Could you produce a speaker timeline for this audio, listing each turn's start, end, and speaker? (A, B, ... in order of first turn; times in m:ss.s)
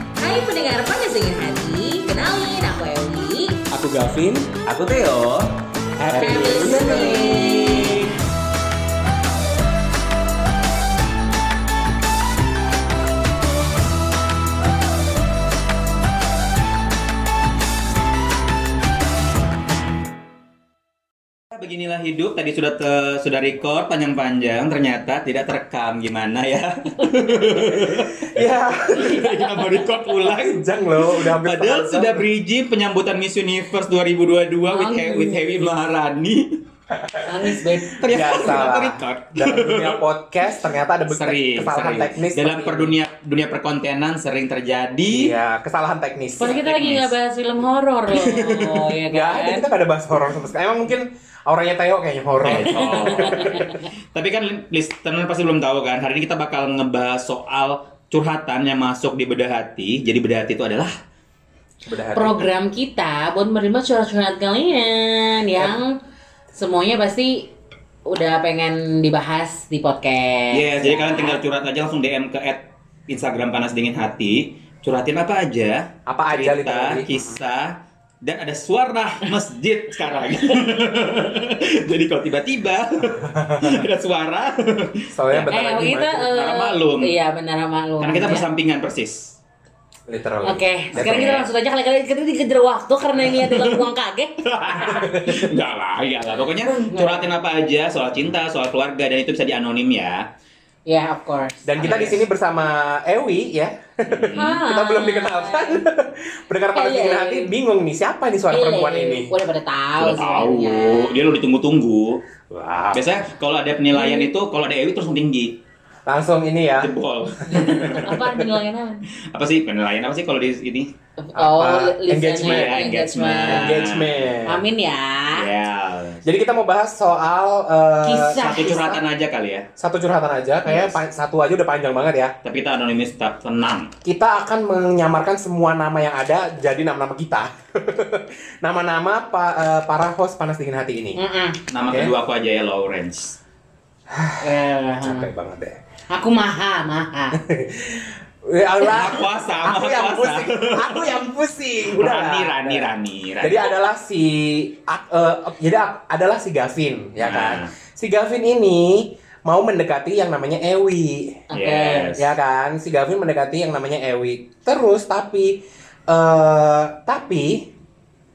0:00.2-0:03.6 A
0:03.7-0:04.6 B
0:04.6-0:05.6 C
0:06.0-0:07.4 B
0:06.1-0:08.1 C
0:06.1-0:08.1 A
0:21.5-0:36.5 C
0:27.0-0:27.4 A
0:27.8-0:29.3 B
0:28.9-0:29.8 A
0:30.2-0:32.2 B
0:34.7-0:35.6 A
0:36.9-0:37.5 B
0:37.2-0:38.0 A
0:37.9-0:40.0 C
0:38.1-0:43.0 B
0:41.1-0:45.3 C
0:45.1-0:46.7 B
0:46.4-0:49.7 A
0:46.6-0:47.2 C
0:48.2-0:48.8 C
0:49.1-0:53.7 B
0:52.4-1:01.0 C
0:52.6-0:53.8 A
1:01.8-1:02.5 B
1:02.1-1:05.9 A
1:06.5-1:07.5 A
1:08.1-1:11.4 A
1:10.5-1:17.7 C
1:16.1-1:17.4 B
1:18.2-1:25.5 C
1:23.1-1:23.8 B
1:25.1-1:26.3 B
1:25.5-1:28.4 A
1:26.2-1:27.1 C
1:28.0-1:29.3 C
1:30.1-1:31.4 B
1:30.4-1:35.1 A
1:30.9-1:31.5 C
1:33.2-1:33.8 C
1:34.4-1:40.2 C
1:36.6-1:37.2 A
1:40.8-1:42.2 A
1:41.6-1:49.3 B
1:44.1-1:44.6 C
1:44.3-1:45.8 A
1:46.7-1:47.5 A
1:48.5-1:51.4 A
1:50.0-1:52.2 C
1:52.5-1:53.2 B
1:52.9-1:55.6 C
1:54.0-1:54.3 A
1:56.1-1:56.9 B
1:56.8-1:58.2 C
1:57.4-1:58.4 B
1:57.4-1:59.0 A
1:59.3-2:00.9 C
2:01.2-2:03.8 A
2:01.4-2:02.8 B
2:02.4-2:04.2 C
2:03.5-2:04.6 B
2:04.4-2:05.5 A
2:05.3-2:06.2 C
2:06.2-2:09.0 B
2:08.0-2:08.8 A
2:08.4-2:09.6 C
2:09.8-2:12.3 B
2:10.6-2:11.0 A
2:12.4-2:13.9 C
2:14.0-2:21.2 B
2:21.2-2:21.6 A
2:21.7-2:23.4 C
2:21.8-2:22.1 B
2:24.1-2:24.5 B
2:24.4-2:25.3 A
2:25.0-2:25.8 B
2:26.1-2:27.4 A
2:27.4-2:41.4 B
2:28.8-2:31.2 C
2:31.9-2:33.7 C
2:37.2-2:37.7 C
2:41.5-2:42.1 A
2:41.5-2:42.4 C
2:42.1-2:47.7 B